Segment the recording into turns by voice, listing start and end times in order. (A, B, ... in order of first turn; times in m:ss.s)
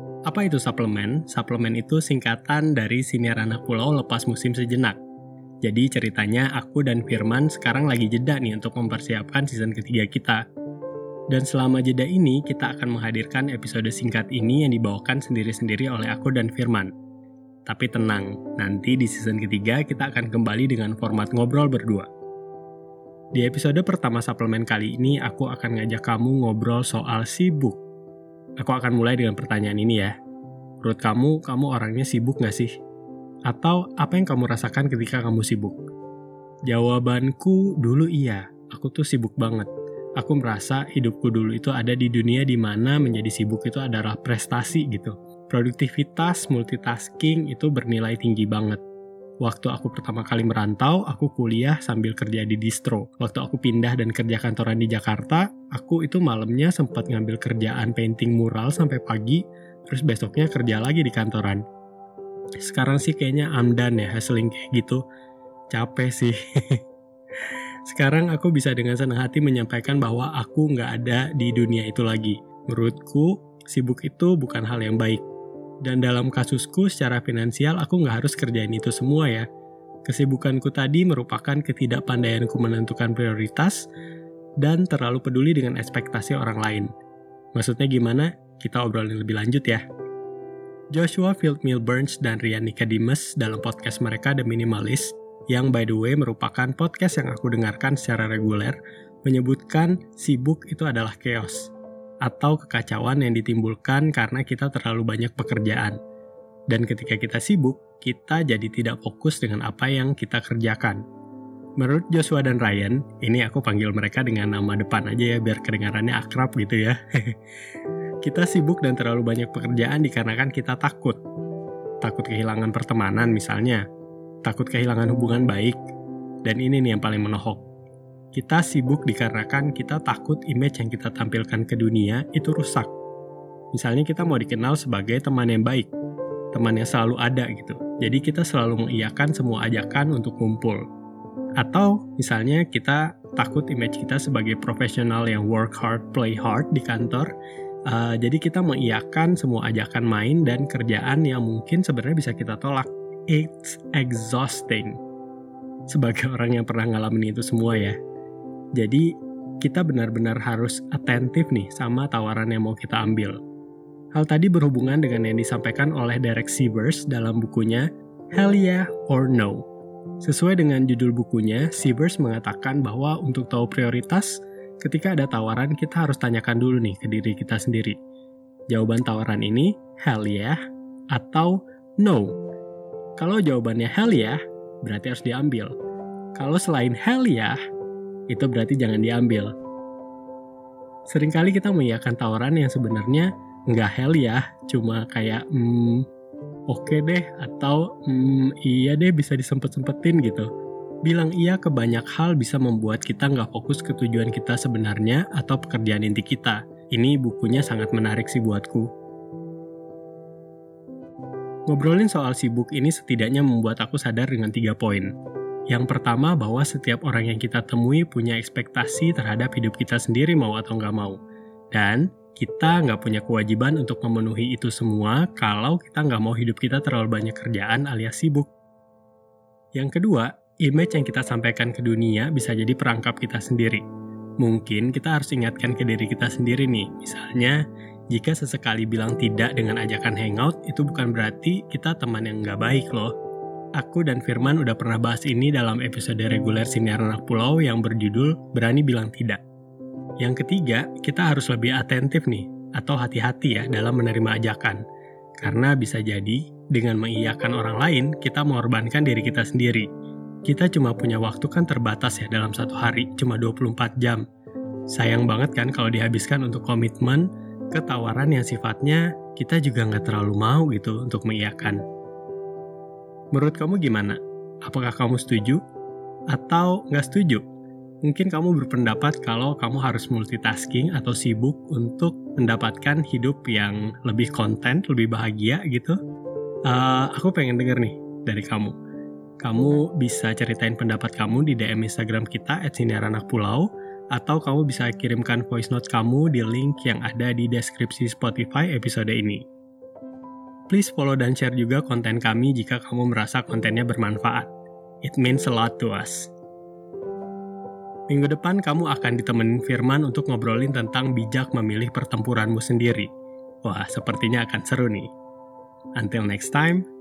0:00.3-0:05.0 A
0:05.6-0:10.4 A
0:11.3-0:16.9 A
0:17.7-0:22.1 A
0:23.4-0:27.8 A
0:28.6-0:30.1 A
0:30.8-0:32.7 A
0:33.5-0:35.8 A
0:36.7-0:48.8 A
0:49.4-1:01.6 A
1:02.6-1:05.0 A
1:05.7-1:06.8 A
1:07.9-1:15.2 A
1:15.8-1:19.5 A
1:20.1-1:23.8 A
1:24.6-1:26.9 A
1:27.6-1:29.8 A
1:30.9-1:41.7 A
1:42.2-1:46.0 A
1:46.7-1:51.0 A
1:51.8-1:57.3 A
1:58.2-2:01.2 A
2:02.0-2:03.8 A
2:04.4-2:05.8 A
2:06.4-2:07.6 A
2:08.4-2:12.9 A
2:13.7-2:15.9 A
2:16.5-2:20.8 A
2:21.6-2:27.3 A
2:27.9-2:35.0 A
2:35.9-2:38.0 A
2:38.8-2:39.1 A
2:39.6-2:43.4 A
2:44.2-2:49.6 A
2:50.2-2:58.0 A
2:58.7-3:00.6 A
3:01.1-3:02.3 A
3:03.2-3:05.7 A
3:06.4-3:07.6 A
3:08.3-3:09.5 A
3:11.1-3:16.0 A
3:16.7-3:20.5 A
3:21.1-3:28.9 A
3:31.7-3:35.1 A
3:35.7-3:41.2 A
3:41.7-3:48.5 A
3:49.8-3:53.8 A
3:54.4-3:57.6 A
3:58.1-4:03.1 A
4:03.8-4:09.4 A
4:10.2-4:14.8 A
4:15.4-4:19.9 A
4:20.5-4:24.2 A
4:24.9-4:31.8 A
4:33.3-4:35.6 A
4:36.3-4:37.4 A
4:38.0-4:46.0 A
4:46.7-4:48.8 A
4:49.4-4:59.4 A
5:00.7-5:04.5 A
5:05.0-5:06.3 A
5:08.1-5:13.1 A
5:13.6-5:15.1 A
5:16.0-5:16.8 A